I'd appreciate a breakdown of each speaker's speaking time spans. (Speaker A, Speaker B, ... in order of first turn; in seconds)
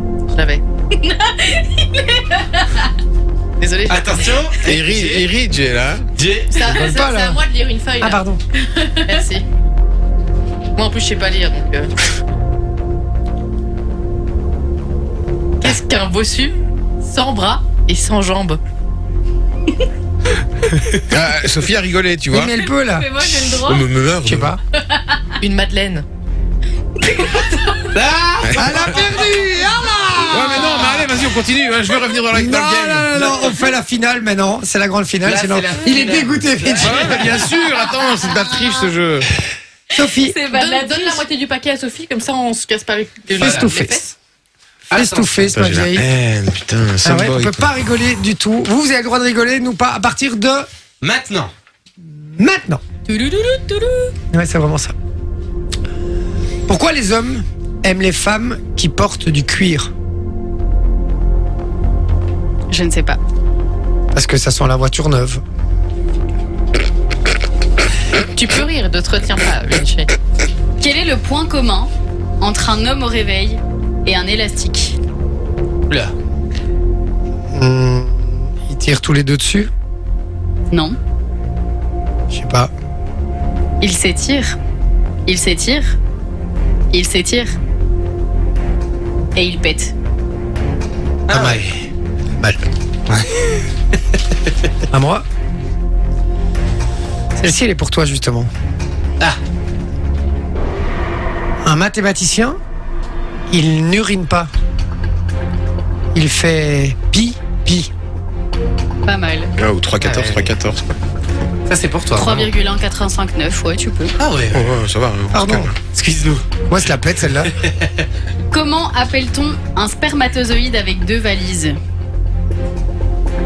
Speaker A: 0.3-0.6, 3.6-4.4, 6.5-9.4, 10.7-11.9, 15.6-18.6, 25.4-26.0, 40.5-44.0, 53.1-54.1, 68.2-70.2
Speaker B: 0.9-2.9, 22.8-23.9, 24.8-25.3, 27.0-27.9, 38.2-38.6, 40.0-41.2, 62.7-63.2, 70.8-75.0, 80.7-81.0, 83.8-84.6, 85.3-86.0, 86.9-87.5, 89.3-89.9, 109.0-109.5, 112.1-114.2, 118.5-121.8
Speaker C: 3.9-5.3, 6.2-6.5, 27.9-29.3, 35.2-37.6, 43.4-43.7, 44.9-45.5, 51.0-51.5, 91.3-91.7, 93.1-93.6, 110.0-110.5, 111.7-112.5, 114.2-114.8, 115.9-116.4, 117.6-118.0
Speaker D: 4.6-6.0, 21.1-22.6, 23.3-24.6, 28.4-28.9, 30.3-33.2, 36.8-39.3, 45.5-47.8, 109.6-111.0, 114.5-115.8
Speaker E: 6.6-7.4, 8.0-8.4, 22.3-23.2, 24.2-24.6, 28.5-31.1, 32.3-37.3, 39.9-40.4, 43.4-44.2, 44.9-46.0, 47.0-50.7, 52.4-52.8, 54.3-54.9, 56.7-59.9, 64.1-65.4, 77.5-79.7, 82.3-82.7, 91.3-91.8, 94.9-95.2, 97.3-98.5, 101.6-102.6, 103.5-104.5, 106.1-107.9, 115.3-115.7, 116.7-117.5